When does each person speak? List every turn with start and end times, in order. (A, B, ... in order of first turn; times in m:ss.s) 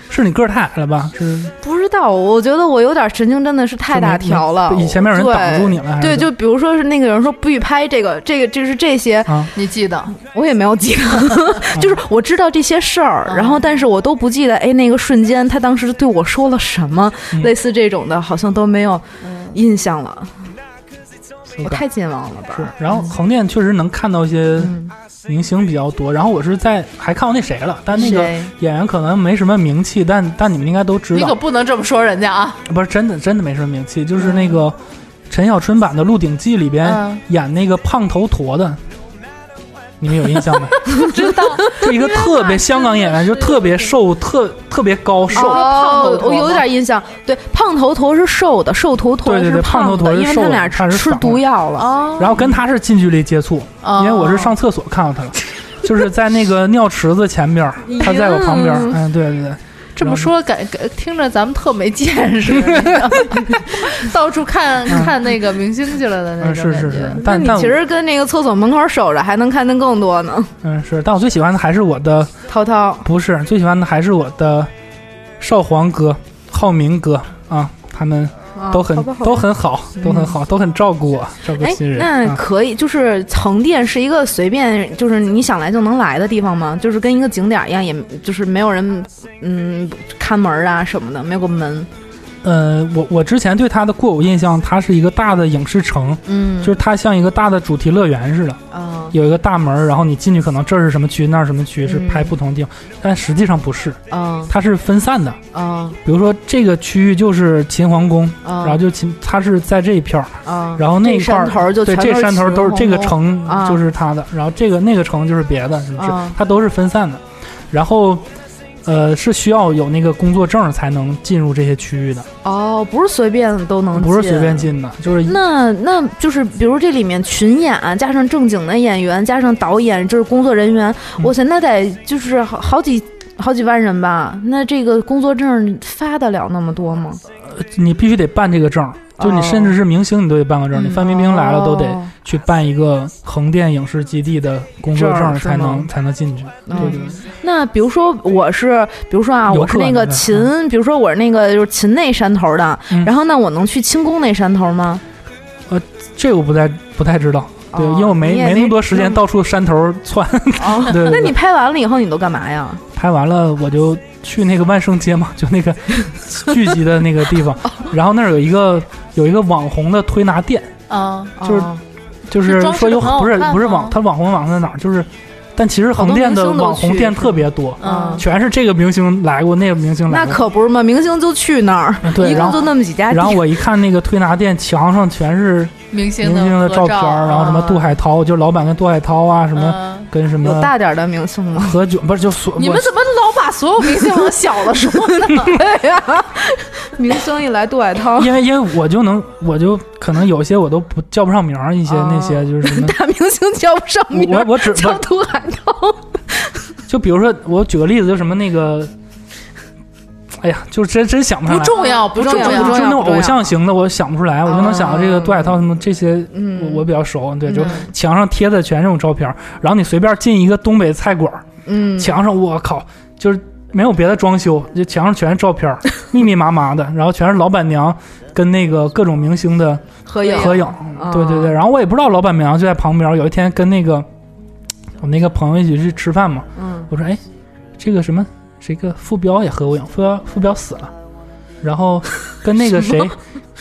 0:00.1-0:01.5 A
0:01.6-0:09.5 B
0:03.9-0:06.3 A
0:09.5-0:10.1 C
0:10.1-0:20.5 B
0:11.7-0:12.0 A
0:13.3-0:13.6 C
0:19.2-0:19.6 C
0:21.5-0:21.8 A
0:21.6-0:22.9 B
0:22.5-0:31.4 A
0:24.6-0:24.9 B
0:27.9-0:28.5 B
0:31.1-0:32.6 C
0:32.6-0:34.8 A
0:35.3-0:38.8 A
0:36.8-0:37.2 C
0:40.0-0:41.1 A
0:40.8-0:43.6 C
0:40.9-0:41.8 B
0:41.6-0:45.7 A
0:45.3-0:46.6 C
0:45.3-0:52.4 B
0:49.2-0:51.4 A
0:51.8-0:52.5 C
0:52.2-1:00.3 A
0:53.8-0:54.5 C
0:57.8-0:59.0 B
1:00.0-1:07.2 C
1:02.5-1:03.0 A
1:06.4-1:07.8 A
1:07.2-1:10.5 B
1:10.6-1:12.3 A
1:12.5-1:13.0 B
1:13.0-1:14.7 A
1:15.4-1:22.4 A
1:18.5-1:20.4 B
1:21.6-1:31.9 B
1:32.4-1:45.4 A
1:36.3-1:36.8 B
1:38.7-1:39.2 B
1:41.8-1:42.3 B
1:44.1-1:44.5 B
1:45.5-1:46.0 B
1:46.0-1:58.2 A
1:48.4-1:48.8 B
1:50.4-1:53.8 B
1:56.0-1:56.4 B
1:58.8-2:02.3 A
2:02.4-2:04.7 B
2:03.9-2:05.4 A
2:05.2-2:17.2 B
2:17.4-2:27.1 A
2:19.2-2:19.8 B
2:20.7-2:22.1 B
2:24.9-2:25.9 B
2:26.7-2:35.0 B
2:26.8-2:27.0 C
2:29.5-2:30.5 A
2:35.7-2:41.4 A
2:37.7-2:39.2 B
2:40.6-2:42.8 B
2:42.9-2:50.7 A
2:50.9-2:51.4 C
2:51.4-2:51.8 B
2:51.4-2:51.7 A
2:52.3-3:00.4 A
2:52.4-2:54.0 C
2:55.9-2:58.2 B
2:57.8-2:58.2 C
3:00.1-3:03.4 B
3:02.0-3:10.7 A
3:02.3-3:02.6 C
3:05.9-3:07.8 C
3:07.3-3:07.8 B
3:09.5-3:10.1 C
3:10.4-3:11.8 B
3:11.5-3:12.9 A
3:12.6-3:15.6 C
3:14.8-3:18.3 B
3:18.2-3:23.0 A
3:21.9-3:26.5 B
3:24.1-3:25.1 A
3:26.9-3:28.9 A
3:30.4-3:54.1 A
3:31.5-3:33.2 C
3:31.7-3:33.4 B
3:34.4-3:35.6 B
3:36.3-3:36.9 B
3:37.4-3:37.9 B
3:41.6-3:42.1 B
3:50.1-3:51.6 B
3:50.2-3:50.7 C
3:55.0-3:57.2 A
3:56.6-3:56.9 B
3:57.8-4:00.9 A
4:01.6-4:03.2 A